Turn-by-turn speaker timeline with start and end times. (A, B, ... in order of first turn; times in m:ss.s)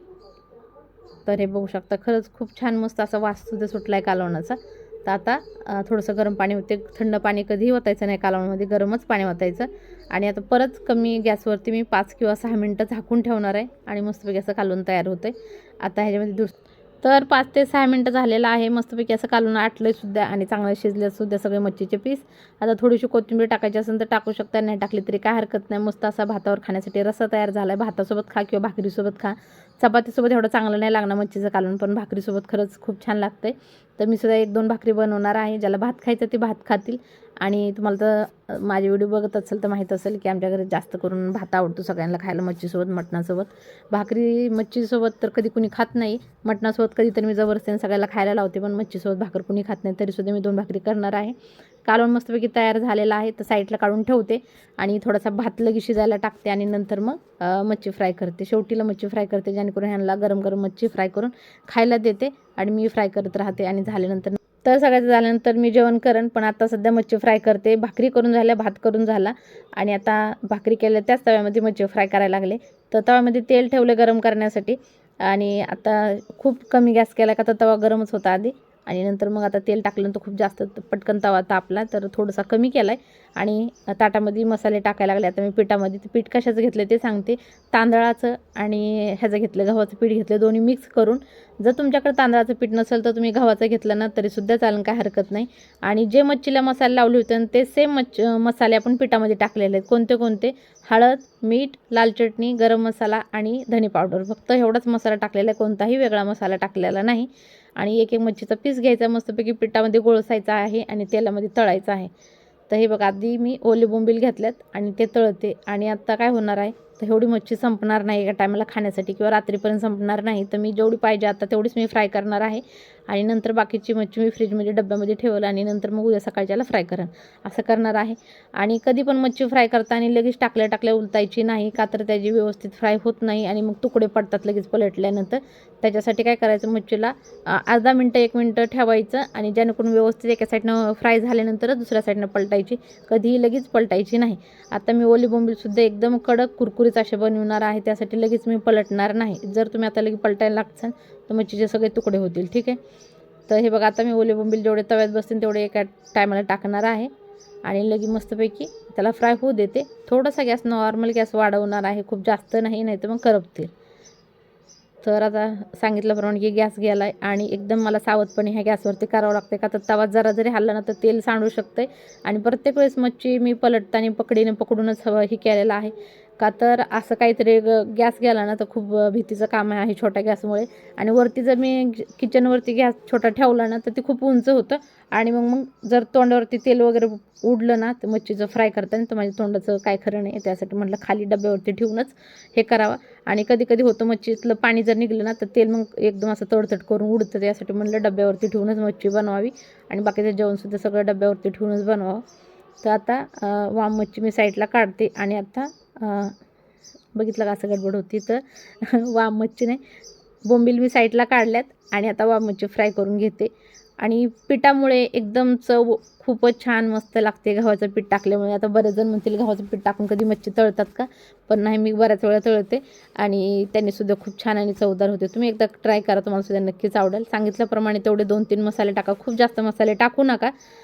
0:01.2-1:52.1 A
1:52.7-2:32.8 A
2:33.5-2:37.1 A
2:37.6-2:43.7 A
2:45.0-3:22.2 A
3:22.8-3:26.4 A
3:27.1-3:29.8 A
3:30.4-3:33.5 A
3:34.0-3:50.5 A